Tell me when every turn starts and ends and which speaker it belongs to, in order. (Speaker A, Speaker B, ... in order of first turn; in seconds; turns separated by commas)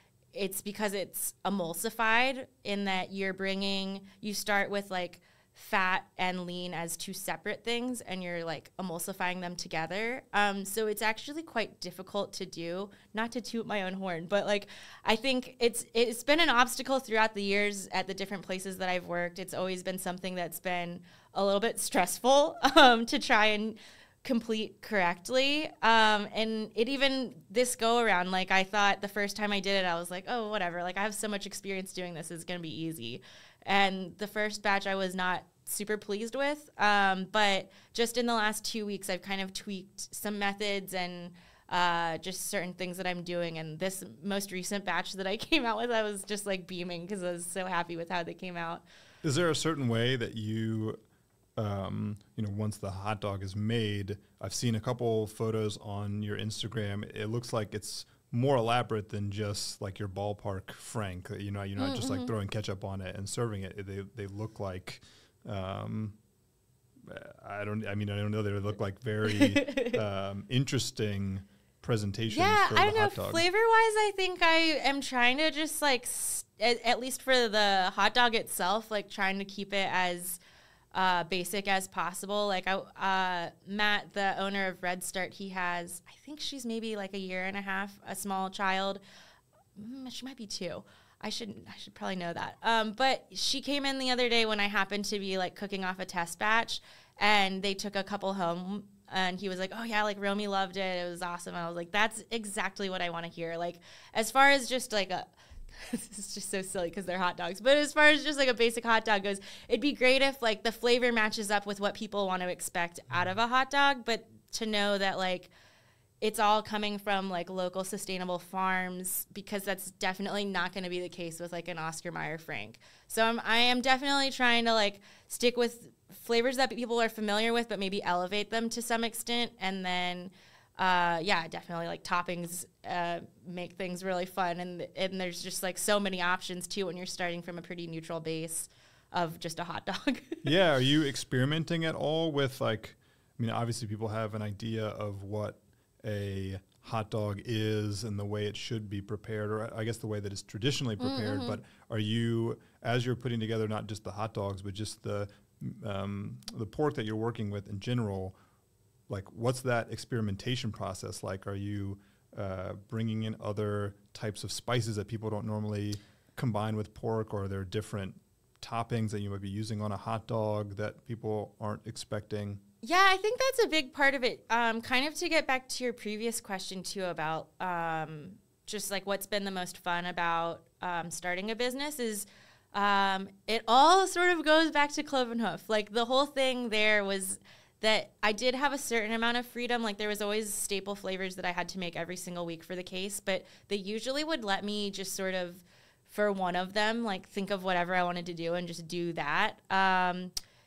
Speaker A: 0.3-48.8, Speaker B: 49.2-51.0, Speaker B: 51.6-66.2, Speaker A: 61.8-62.3, Speaker B: 67.0-73.4, Speaker A: 69.3-70.0, Speaker A: 72.3-80.4, Speaker A: 80.9-89.0, Speaker A: 89.8-115.5, Speaker A: 116.2-140.5, Speaker B: 140.4-158.4, Speaker A: 151.0-151.6, Speaker B: 159.1-172.6, Speaker A: 172.8-200.3